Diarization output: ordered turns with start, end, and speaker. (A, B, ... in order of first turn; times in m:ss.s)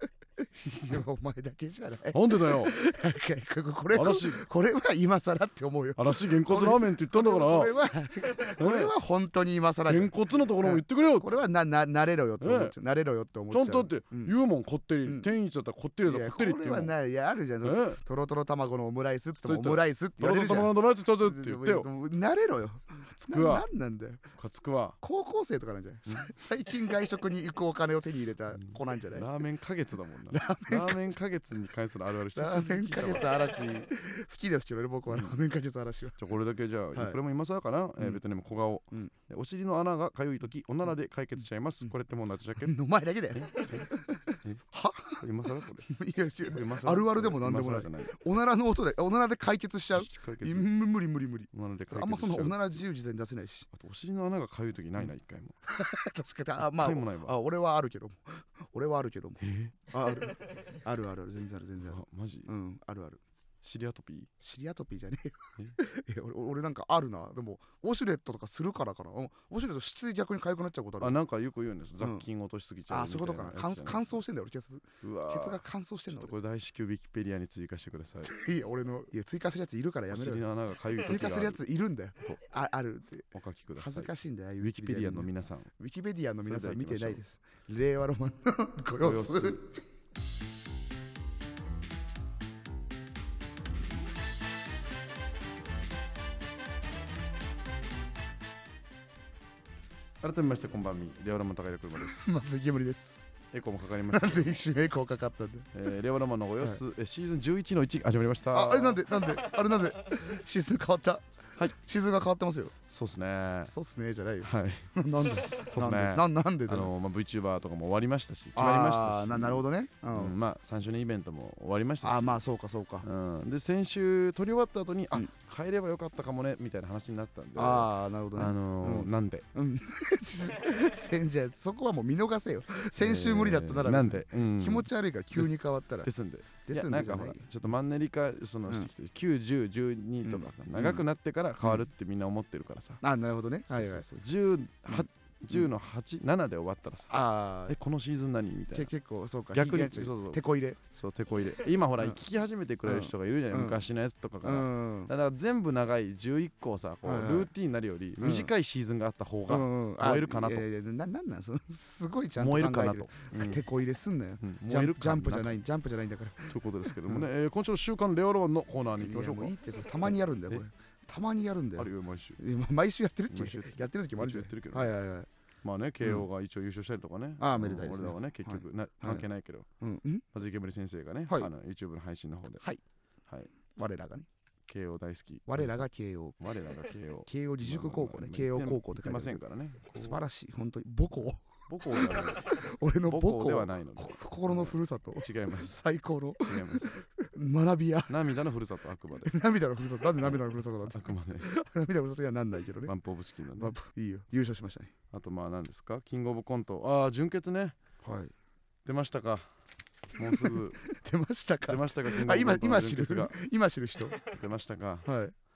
0:00.4-0:14.3 A
0:02.1-0:02.7 B
0:03.9-0:04.4 B
0:06.0-0:07.7 B
0:08.6-0:08.9 B
0:09.9-0:11.3 B
0:12.4-0:12.7 B
0:13.5-0:16.9 B
0:16.1-0:24.2 A
0:17.6-0:18.0 B
0:19.4-0:21.9 B
0:23.1-0:23.7 B
0:24.4-0:25.0 B
0:25.0-0:29.3 A
0:28.6-0:33.4 B
0:30.3-0:31.1 A
0:32.4-0:36.2 A
0:36.2-0:42.7 B
0:42.6-0:45.2 A
0:43.3-0:44.6 B
0:45.2-0:45.9 B
0:45.9-0:53.7 A
0:46.5-0:48.2 B
0:50.0-0:50.7 B
0:51.5-0:52.8 B
0:53.7-0:55.6 B
0:55.7-1:03.2 A
0:56.8-0:57.4 B
0:59.4-0:59.8 B
1:01.8-1:02.5 B
1:03.6-1:04.3 B
1:04.4-1:11.2 A
1:11.0-1:14.2 B
1:12.0-1:12.2 A
1:12.9-1:16.3 A
1:15.0-1:18.3 B
1:18.2-1:20.4 A
1:20.1-1:21.6 B
1:21.0-1:29.6 A
1:23.3-1:25.7 B
1:26.4-1:27.2 B
1:29.0-1:29.6 B
1:40.2-1:42.4 B
1:42.2-1:43.2 A
1:43.5-1:44.6 B
1:44.1-1:45.7 A
1:45.7-1:49.0 B
1:48.5-1:52.7 A
1:52.9-1:53.7 B
1:53.7-1:56.9 A
1:54.4-1:54.9 B
1:55.6-2:02.4 B
1:58.6-2:00.4 A
2:02.0-2:03.1 A
2:03.0-2:09.5 B
2:07.6-2:16.1 A
2:13.0-2:23.0 B
2:16.7-2:17.4 A
2:20.2-2:21.0 A
2:23.0-2:24.1 A
2:23.7-2:28.9 B
2:24.9-2:25.7 A
2:27.1-2:27.8 A
2:28.7-2:30.8 A
2:29.5-2:40.6 B
2:31.9-2:32.2 A
2:32.8-2:33.8 A
2:34.4-2:35.1 A
2:37.0-2:37.5 A
2:38.2-2:38.5 A
2:39.5-2:47.3 A
2:42.4-2:43.6 B
2:44.4-2:45.6 B
2:46.5-2:50.6 B
2:49.0-2:55.3 A
2:51.8-2:52.4 B
2:53.3-2:54.9 B
2:55.6-2:59.7 B
2:57.4-2:59.3 A
2:59.8-3:00.2 A
3:00.3-3:02.6 B
3:03.8-3:04.3 A
3:04.7-3:05.9 B
3:05.5-3:06.4 A
3:06.4-3:10.2 B
3:07.3-3:09.4 A
3:09.9-3:18.1 A
3:11.7-3:15.8 B
3:16.5-3:17.0 B
3:18.1-3:19.3 B
3:19.2-3:22.9 A
3:20.2-3:21.5 B
3:22.9-3:23.8 B
3:23.6-3:24.9 A
3:25.1-3:27.8 B
3:28.0-3:28.3 A
3:28.8-3:29.5 B
3:30.2-3:30.8 B
3:30.2-3:34.2 A
3:31.7-3:33.3 B
3:34.3-3:35.1 B
3:35.0-3:35.3 A